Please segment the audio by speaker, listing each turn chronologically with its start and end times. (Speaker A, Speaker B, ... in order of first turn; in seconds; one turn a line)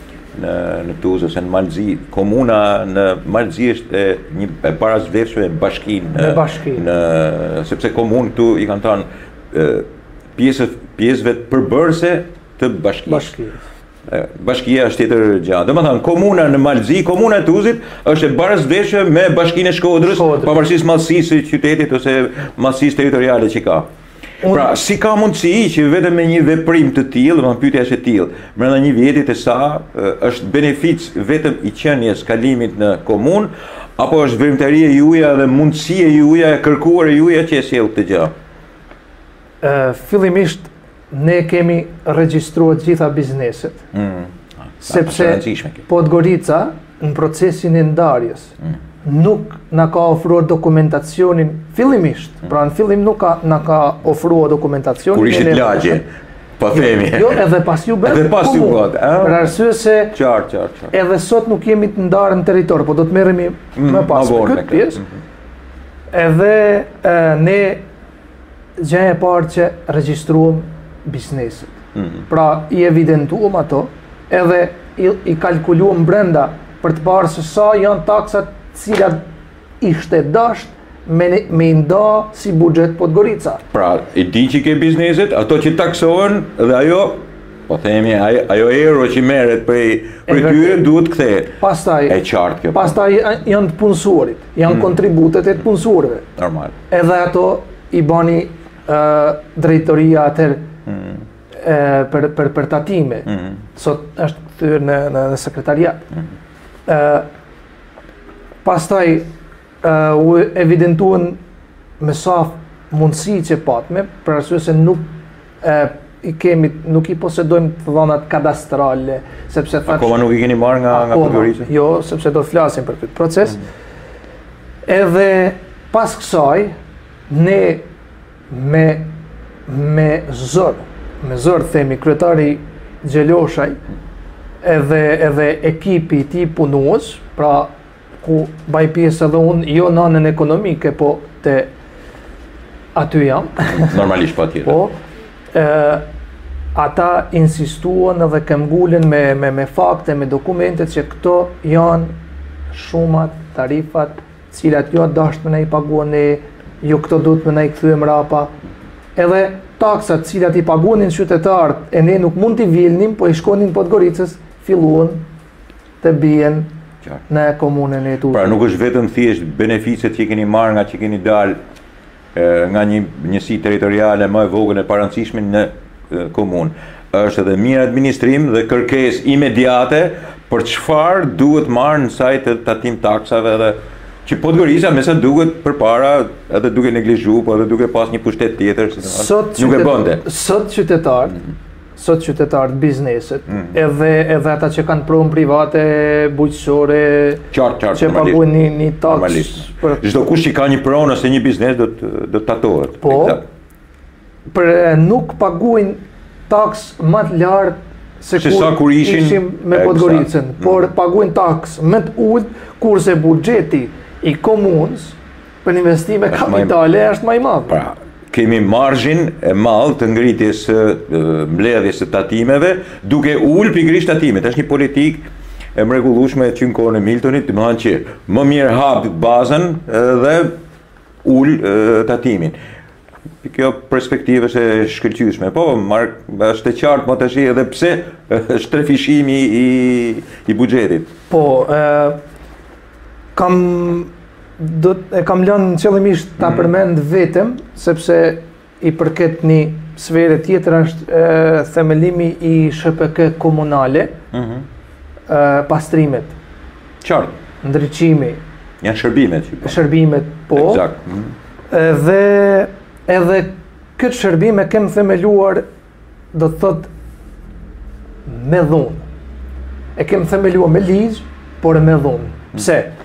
Speaker A: 0.3-13.3
Speaker B: 6.1-6.9
Speaker B: 13.1-13.6
Speaker A: 14.1-23.9
Speaker B: 20.1-20.5
Speaker A: 24.4-38.3
Speaker B: 39.6-43.8
Speaker A: 43.9-45.8
Speaker B: 44.9-56.0
Speaker A: 55.1-56.0
Speaker A: 56.6-57.5
Speaker B: 56.7-60.2
Speaker A: 58.0-59.5
Speaker A: 60.1-60.9
Speaker B: 60.9-65.0
Speaker A: 63.8-65.2
Speaker B: 66.1-67.8
Speaker B: 68.8-79.2
Speaker A: 71.9-72.2
Speaker B: 79.8-83.6
Speaker A: 83.7-91.6
Speaker B: 90.3-90.9
Speaker B: 91.6-92.2
Speaker A: 92.1-93.0
Speaker B: 92.7-96.3
Speaker A: 96.4-96.7
Speaker B: 96.9-100.7
Speaker A: 100.8-101.2
Speaker B: 101.5-106.0
Speaker B: 106.9-107.3
Speaker B: 108.6-109.3
Speaker B: 109.8-111.4
Speaker B: 112.0-115.1
Speaker B: 115.6-120.2
Speaker A: 119.9-121.7
Speaker B: 120.9-123.6
Speaker B: 124.8-126.7
Speaker B: 127.3-127.8
Speaker B: 128.5-129.1
Speaker B: 129.7-133.8
Speaker B: 134.6-141.7
Speaker B: 142.9-144.1
Speaker A: 143.7-144.8
Speaker B: 144.6-145.0
Speaker B: 145.5-146.0
Speaker B: 146.7-152.2
Speaker B: 152.7-158.5
Speaker B: 159.2-165.2
Speaker B: 166.0-166.7
Speaker B: 167.3-168.6
Speaker A: 168.3-171.6
Speaker A: 172.3-190.2
Speaker B: 189.0-191.4
Speaker B: 192.0-200.0
Speaker A: 197.5-198.5
Speaker A: 199.0-203.4
Speaker B: 203.0-203.4
Speaker B: 204.5-217.8
Speaker A: 208.4-210.8
Speaker A: 216.3-216.8
Speaker A: 217.7-230.6
Speaker A: 231.2-232.5
Speaker A: 233.4-241.1
Speaker B: 241.3-242.2
Speaker B: 243.3-254.2
Speaker A: 254.3-254.7
Speaker B: 255.3-256.3
Speaker A: 257.0-257.3
Speaker B: 257.6-258.4
Speaker A: 258.8-259.8
Speaker B: 259.6-260.8
Speaker A: 260.5-261.3
Speaker B: 261.7-265.6
Speaker B: 266.3-266.9
Speaker B: 268.3-269.0
Speaker B: 270.0-272.9